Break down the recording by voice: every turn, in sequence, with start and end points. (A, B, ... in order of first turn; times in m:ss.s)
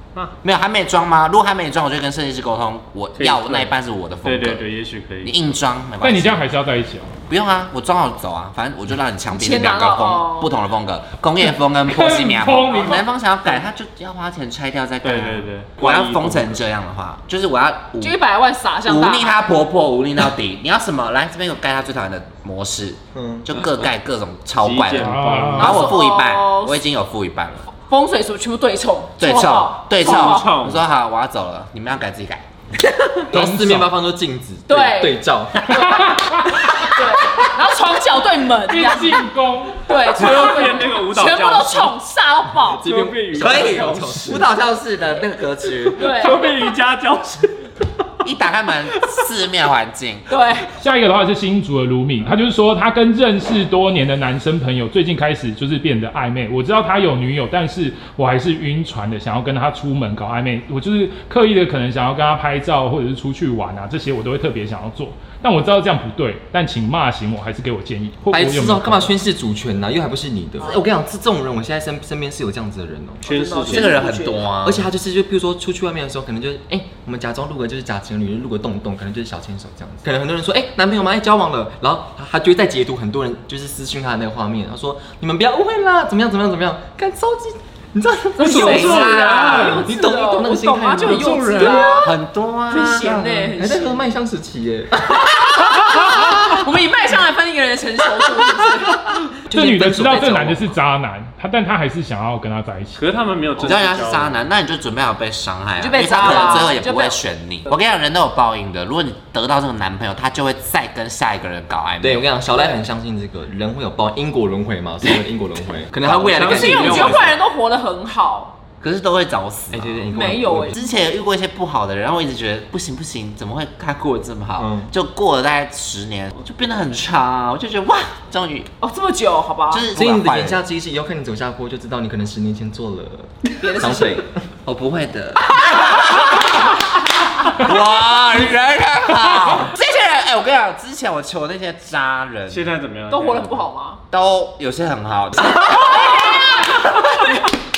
0:00.4-0:04.7 A
0:03.2-0:05.5 B
0:05.2-0:06.4 A
0:06.0-0:07.1 C
0:07.3-0:18.2 A
0:09.3-0:10.5 D
0:11.9-0:13.0 C
0:15.0-0:16.6 B
0:18.0-0:19.4 D
0:18.8-0:27.7 A
0:23.1-0:23.5 E
0:24.6-0:26.0 B
0:25.0-0:25.8 C
0:25.6-0:26.8 D
0:27.7-0:30.5 D
0:29.2-0:32.4 A
0:30.0-0:30.8 B
0:33.2-0:35.8 E
0:33.3-0:34.0 C
0:34.7-0:39.2 D
0:36.1-0:36.4 C
0:38.7-0:39.9 C
0:39.8-0:42.8 D
0:39.9-0:42.0 B
0:42.6-0:44.6 E
0:42.7-0:44.4 B
0:43.4-0:46.1 A
0:46.0-0:47.7 B
0:46.0-0:46.7 D
0:48.2-0:50.4 A
0:50.3-0:50.7 D
0:50.8-1:09.1 C
1:08.3-1:14.1 E
1:13.2-1:14.0 B
1:13.4-1:14.4 D
1:13.7-1:14.9 A
1:14.6-1:32.0 E
1:28.4-1:32.2 D
1:28.4-1:29.8 A
1:28.4-1:29.8 B
1:31.4-1:31.8 B
1:32.0-1:33.2 A
1:32.7-1:34.1 D
1:32.8-1:35.7 E
1:35.3-1:39.3 D
1:39.3-1:40.8 E
1:39.5-1:43.1 C
1:43.0-1:44.5 B
1:43.6-1:52.3 A
1:45.8-1:47.2 D
1:52.0-1:57.3 E
1:55.9-1:57.4 B
1:56.3-1:58.6 D
1:58.8-2:00.1 A
1:59.7-2:00.8 E
2:00.1-2:00.9 D
2:00.7-2:08.7 A
2:04.6-2:04.9 E
2:08.8-2:09.9 D
2:09.7-2:10.6 A
2:09.9-2:14.5 E
2:13.6-2:14.2 D
2:14.6-2:16.8 A
2:17.4-2:22.7 A
2:22.5-2:23.7 B
2:23.1-2:24.0 D
2:24.1-2:27.4 A
2:25.9-2:26.8 D